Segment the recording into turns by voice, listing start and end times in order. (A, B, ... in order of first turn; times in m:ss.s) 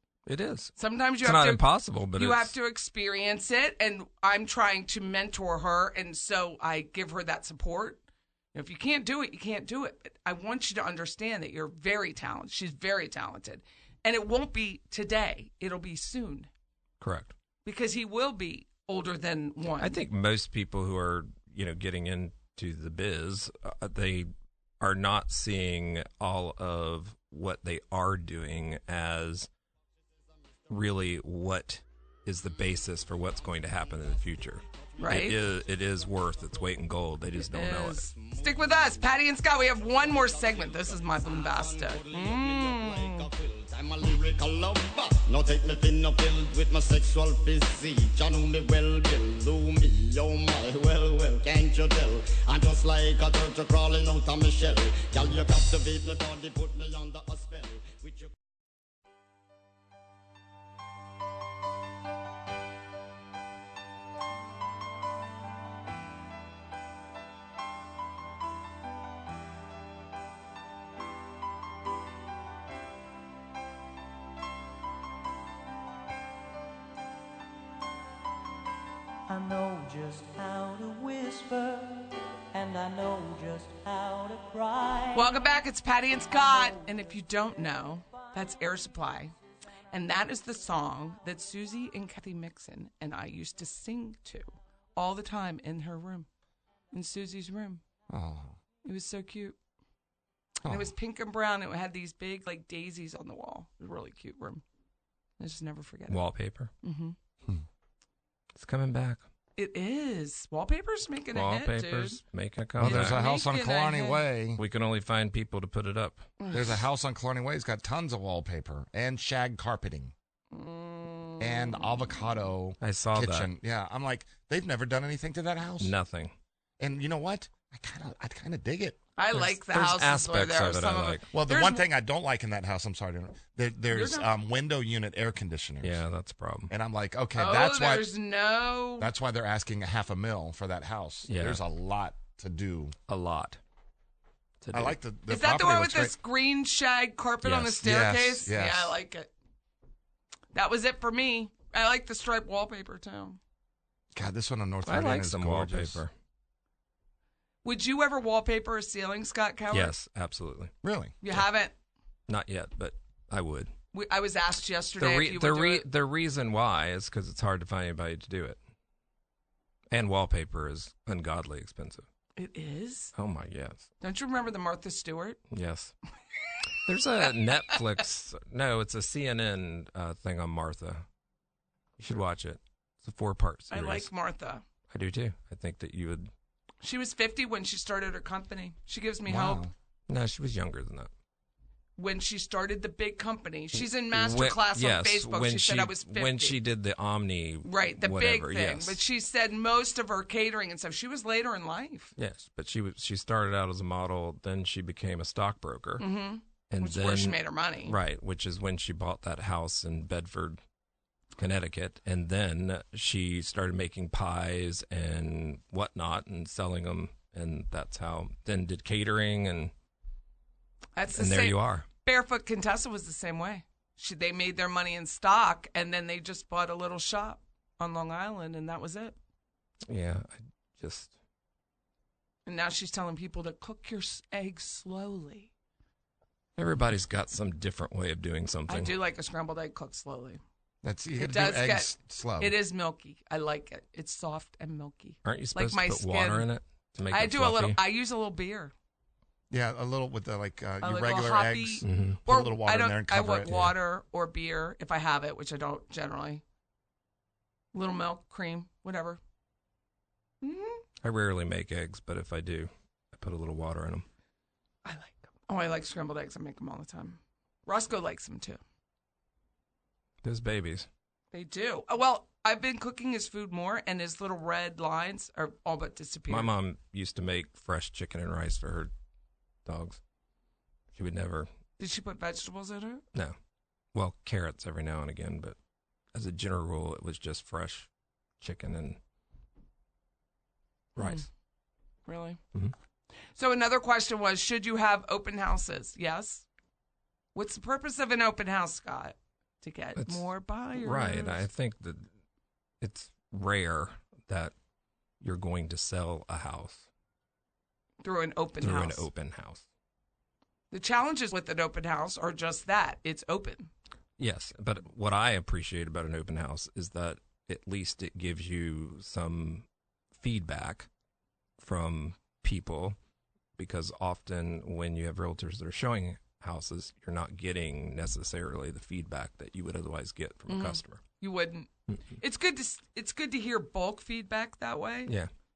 0:00.3-0:02.5 A
0:00.8-0:08.0 B
0:08.5-0:16.5 B
0:17.0-0:17.3 A
0:17.6-0:20.0 B
0:19.8-0:24.3 A
0:24.8-0:29.5 A
0:30.7-0:38.1 A
0:34.7-0:35.6 C
0:35.0-0:35.4 B
0:37.4-0:43.3 B
0:38.1-0:58.3 C
1:19.3-1:25.3 D
1:25.1-1:29.3 B
1:29.9-1:36.3 B
1:36.9-1:37.8 B
1:38.1-1:38.5 E
1:38.8-1:39.6 B
1:40.6-1:40.9 E
1:40.6-1:44.6 B
1:45.4-1:46.2 B
1:46.1-1:46.7 A
1:46.8-1:47.2 B
1:48.5-1:49.2 A
1:49.6-1:52.2 B
1:51.3-1:53.2 A
1:52.8-1:54.6 E
1:52.8-1:54.2 B
1:54.6-1:56.3 A
1:56.4-1:56.8 B
1:56.5-2:00.1 E
2:00.5-2:02.2 B
2:01.4-2:05.9 E
2:02.8-2:03.5 A
2:05.8-2:06.3 A
2:06.8-2:09.0 E
2:09.2-2:11.8 B
2:09.3-2:11.2 A
2:11.3-2:16.0 E
2:13.9-2:14.3 B
2:15.8-2:16.7 A
2:16.7-2:18.1 E
2:17.4-2:19.1 B
2:19.0-2:23.0 E
2:21.2-2:21.6 A
2:23.1-2:23.6 A
2:24.6-2:25.0 A
2:24.7-2:26.1 E
2:25.3-2:29.3 B
2:27.4-2:27.9 A
2:27.8-2:29.0 E
2:30.5-2:33.4 B
2:34.1-2:36.0 E
2:34.8-2:36.1 A
2:37.6-2:39.9 B
2:39.7-2:40.7 A
2:40.8-2:41.2 E
2:41.2-2:41.7 B
2:42.3-2:43.7 A
2:43.9-2:45.8 B
2:45.0-2:48.6 A
2:49.9-2:52.0 A
2:52.4-2:53.1 B
2:53.1-2:53.9 A
2:54.0-2:55.4 B
2:55.5-2:55.9 A
2:56.8-3:01.0 A
3:02.0-3:04.1 A
3:03.7-3:04.6 B
3:04.9-3:06.3 A
3:06.8-3:09.6 B
3:09.2-3:09.7 E
3:10.1-3:11.1 A
3:12.0-3:16.6 B
3:13.8-3:19.0 A
3:17.6-3:22.1 B
3:22.2-3:26.0 A
3:26.0-3:28.0 B
3:26.7-3:30.6 A
3:31.4-3:39.7 A
3:41.0-3:49.2 B
3:41.1-3:41.9 A
3:49.9-3:51.1 A
3:52.4-3:55.5 B
3:56.6-3:58.9 A
3:58.7-4:00.4 B
4:00.8-4:02.6 E
4:01.1-4:06.5 B
4:05.2-4:07.8 A
4:07.1-4:08.7 B
4:09.5-4:13.5 E
4:10.8-4:16.4 B
4:11.8-4:12.2 A
4:13.5-4:13.7 A
4:17.7-4:19.2 B
4:20.4-4:20.8 B
4:21.0-4:24.1 A
4:24.8-4:28.6 B
4:30.2-4:30.9 A
4:31.3-4:36.5 B
4:36.3-4:38.9 A
4:39.6-4:40.0 A
4:40.9-4:41.5 A
4:41.8-4:43.0 B
4:43.9-4:45.6 A
4:46.1-4:47.9 A
4:48.4-4:49.0 A
4:51.0-4:51.2 A
4:51.0-4:51.2 B
4:52.0-4:52.4 B
4:53.4-4:56.4 B
4:57.3-5:01.4 B
4:59.9-5:02.1 A
5:02.8-5:04.5 A
5:05.2-5:06.9 A
5:08.0-5:09.1 B
5:08.6-5:09.6 A
5:10.7-5:13.7 B
5:14.2-5:20.9 A
5:21.6-5:23.0 A
5:23.6-5:31.0 A
5:30.5-5:35.1 B